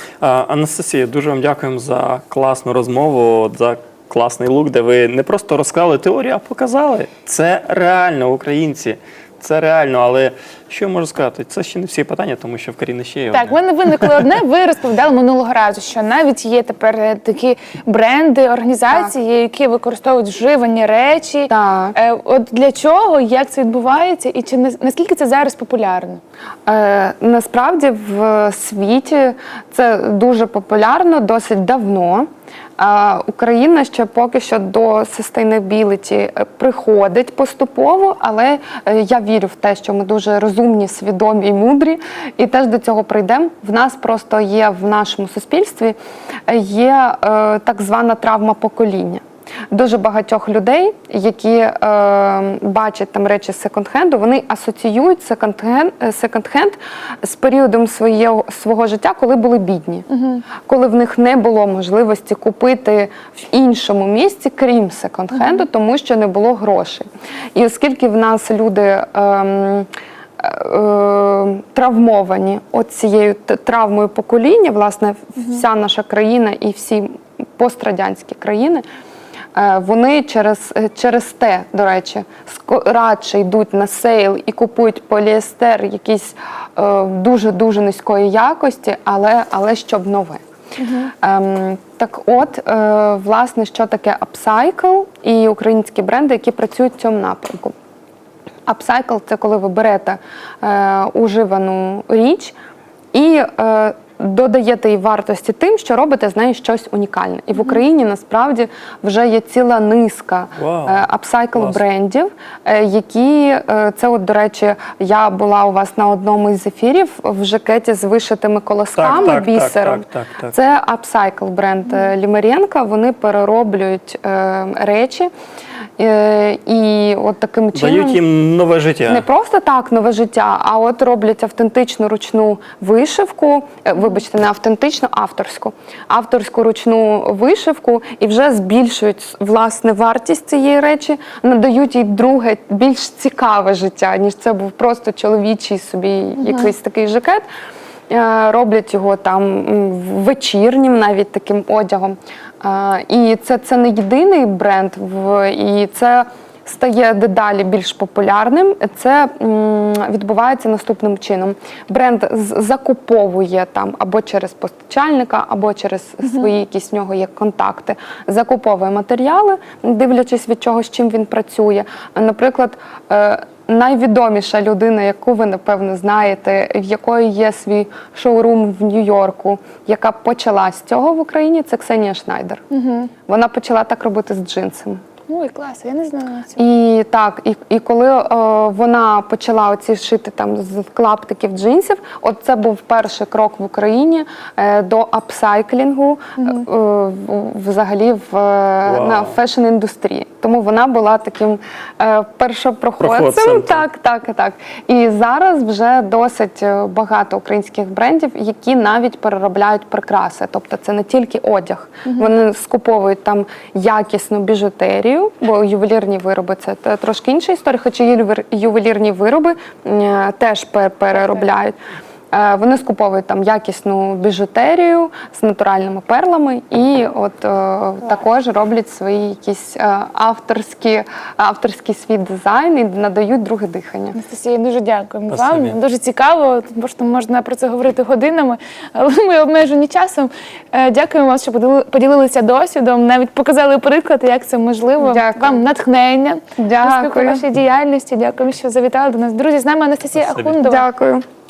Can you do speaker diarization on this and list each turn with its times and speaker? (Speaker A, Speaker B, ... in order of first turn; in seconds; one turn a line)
Speaker A: 0.2-14.1
Speaker B: 13.3-26.2
Speaker C: 21.5-21.9
Speaker C: 26.7-46.0
Speaker C: 46.5-60.1
Speaker B: 60.1-60.5
Speaker C: 60.6-69.9
Speaker B: 65.3-65.6
Speaker C: 70.4-78.8
Speaker C: 79.6-90.4
Speaker B: 90.8-91.1
Speaker C: 91.2-97.7
Speaker C: 98.7-102.5
Speaker C: 103.1-125.3
Speaker A: 110.6-111.8
Speaker A: 119.0-120.5
Speaker C: 126.0-128.2
Speaker A: 127.8-129.2
Speaker C: 129.1-147.4
Speaker B: 146.4-146.7
Speaker C: 148.1-182.6
Speaker B: 182.7-183.1
Speaker C: 183.3-185.0
Speaker B: 185.3-186.6
Speaker C: 186.6-221.8
Speaker B: 196.4-196.7
Speaker A: 198.9-199.4
Speaker A: 203.0-203.9
Speaker B: 221.1-221.5
Speaker C: 222.3-234.2
Speaker B: 234.1-250.8
Speaker A: 235.3-235.8
Speaker C: 245.0-245.6
Speaker C: 246.6-247.4
Speaker A: 250.2-250.5
Speaker C: 250.6-251.2